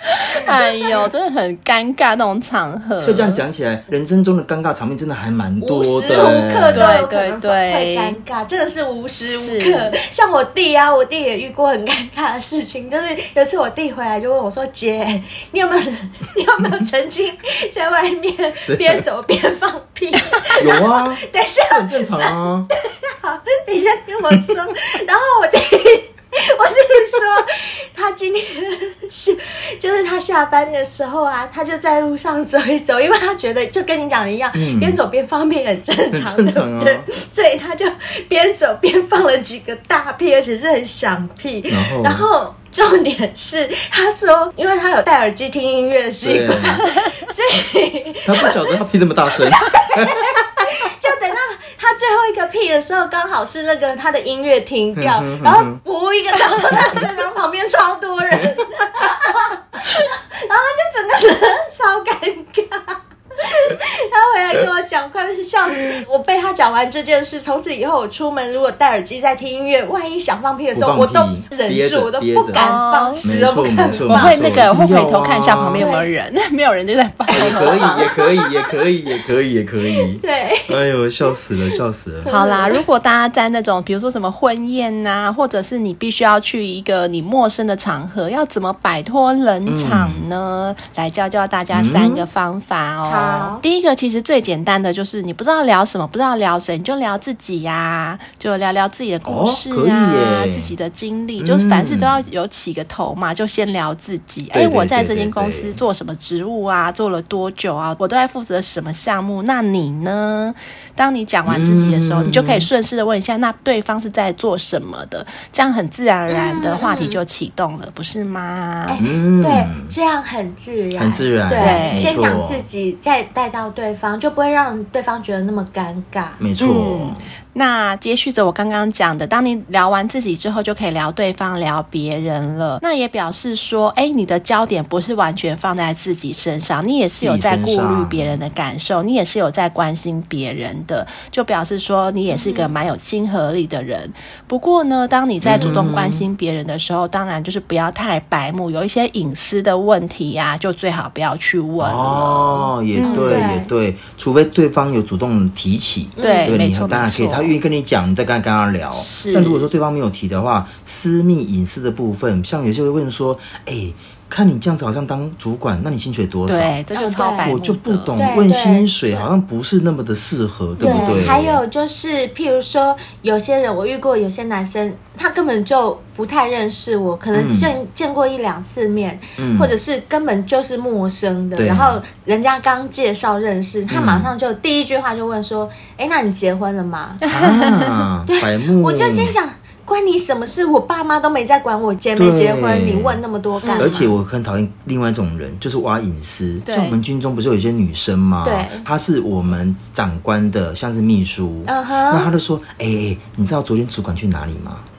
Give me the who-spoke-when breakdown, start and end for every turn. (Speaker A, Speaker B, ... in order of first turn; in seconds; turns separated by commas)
Speaker A: 0.3-3.4, Speaker B: 0.3-1.0, Speaker C: 3.0-7.0, Speaker B: 5.6-74.5, Speaker A: 6.7-8.2, Speaker A: 9.3-9.9, Speaker C: 18.7-19.0, Speaker C: 20.6-22.7, Speaker C: 34.5-35.0, Speaker C: 36.1-37.1, Speaker C: 41.7-42.3, Speaker C: 46.2-46.9, Speaker C: 48.2-50.6, Speaker C: 55.0-55.8, Speaker C: 70.7-72.6, Speaker A: 72.5-73.2, Speaker C: 73.2-75.9, Speaker A: 74.1-78.1, Speaker B: 75.8-76.1, Speaker B: 77.3-78.7, Speaker C: 77.3-82.3, Speaker B: 80.2-80.8, Speaker B: 82.2-82.8, Speaker A: 82.3-119.0, Speaker C: 89.7-90.2, Speaker C: 91.7-92.3, Speaker B: 93.1-93.6, Speaker C: 99.2-100.7, Speaker C: 101.4-102.2, Speaker C: 104.5-105.8, Speaker C: 111.5-112.7, Speaker B: 116.3-117.2, Speaker B: 118.9-126.4, Speaker C: 119.0-119.9, Speaker C: 121.0-122.6, Speaker A: 121.6-122.2, Speaker C: 126.4-127.2, Speaker A: 126.6-153.5, Speaker C: 137.2-138.4, Speaker B: 142.3-142.8, Speaker C: 145.4-146.3, Speaker C: 151.8-166.8, Speaker B: 153.0-153.7, Speaker B: 156.2-156.6, Speaker A: 156.2-157.5, Speaker A: 159.0-159.7, Speaker A: 166.5-168.2, Speaker B: 166.9-167.6, Speaker C: 167.4-171.6, Speaker B: 168.2-169.3, Speaker A: 170.8-171.3, Speaker B: 170.8-187.2, Speaker C: 177.3-177.7, Speaker C: 179.4-179.7, Speaker C: 181.6-182.0, Speaker C: 183.9-184.3, Speaker C: 187.2-189.3, Speaker A: 187.3-188.1, Speaker B: 188.3-194.1, Speaker C: 192.2-193.2, Speaker A: 193.6-194.0, Speaker C: 193.8-204.9, Speaker A: 196.7-197.0, Speaker B: 198.4-198.9, Speaker B: 201.7-202.3